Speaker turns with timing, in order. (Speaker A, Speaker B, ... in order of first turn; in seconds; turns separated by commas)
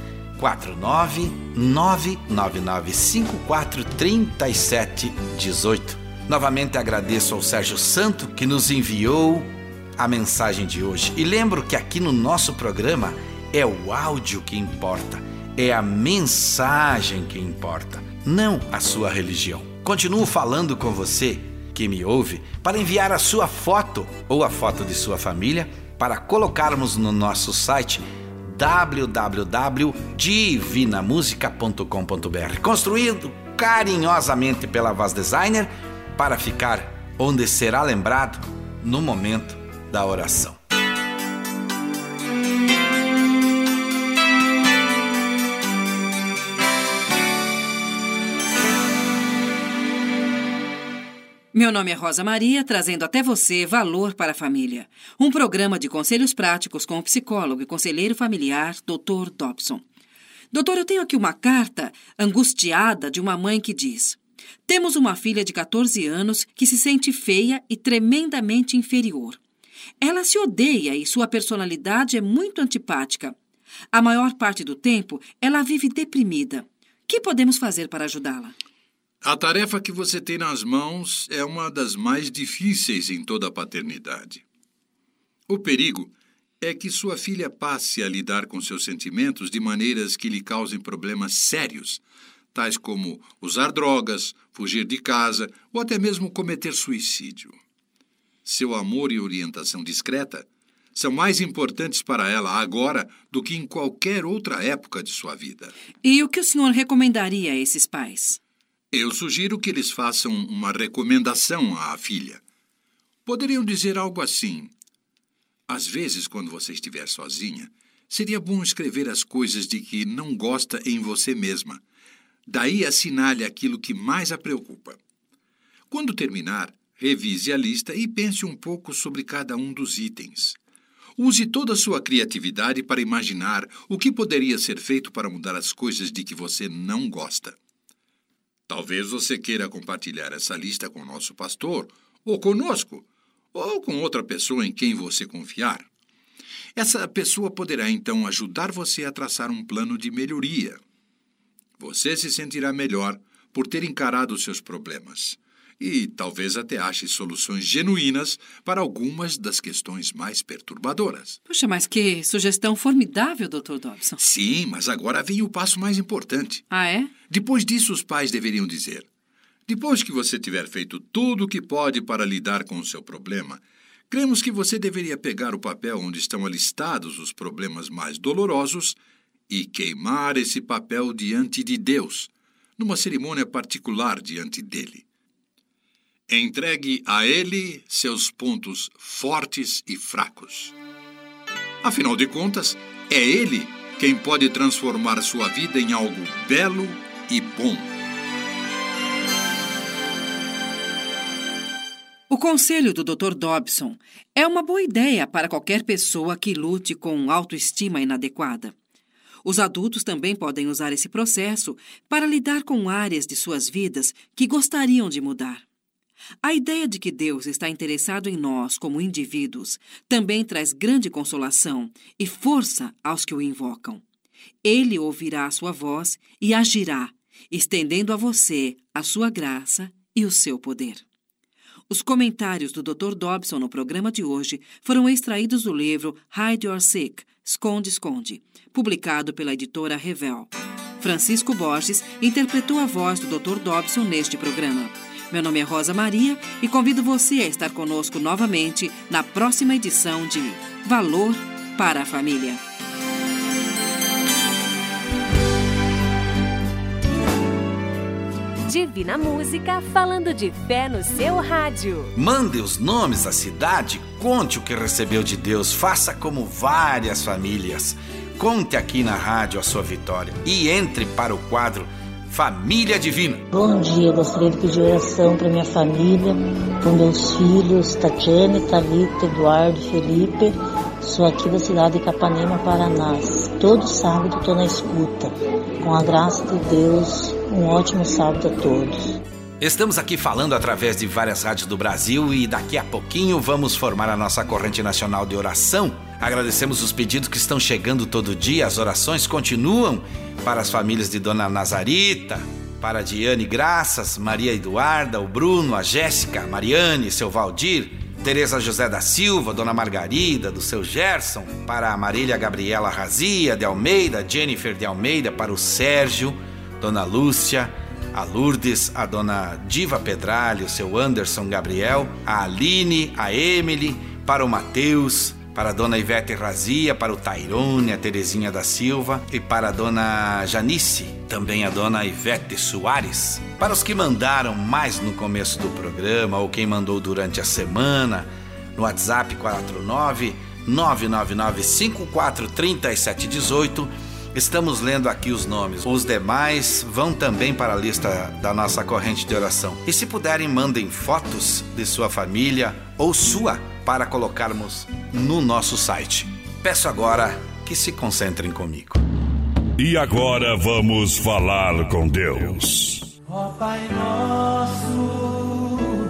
Speaker A: 0.4-40.6, Speaker B: 51.5-59.8, Speaker B: 60.5-69.4, Speaker B: 70.0-73.3, Speaker B: 73.9-78.5, Speaker C: 79.2-84.4, Speaker C: 85.5-97.6, Speaker C: 98.4-105.7, Speaker B: 106.0-108.4, Speaker C: 108.9-112.4, Speaker C: 113.2-114.7, Speaker C: 115.7-121.8, Speaker C: 122.5-125.0, Speaker C: 125.9-130.6, Speaker C: 131.2-137.6, Speaker C: 138.7-145.9, Speaker C: 146.7-150.8, Speaker C: 151.8-161.4, Speaker B: 161.5-164.2, Speaker C: 164.2-166.6, Speaker B: 166.7-167.2, Speaker C: 167.2-169.1, Speaker C: 169.7-185.1, Speaker C: 186.3-190.7, Speaker C: 191.8-197.9, Speaker B: 202.3-208.8, Speaker B: 209.4-215.6, Speaker B: 216.4-224.0, Speaker B: 224.6-231.0, Speaker B: 231.9-252.6, Speaker D: 258.6-262.1, Speaker A: 262.1-273.4, Speaker E: 273.5-289.2, Speaker A: 289.6-359.0, Speaker F: 359.8-363.1, Speaker A: 363.4-365.6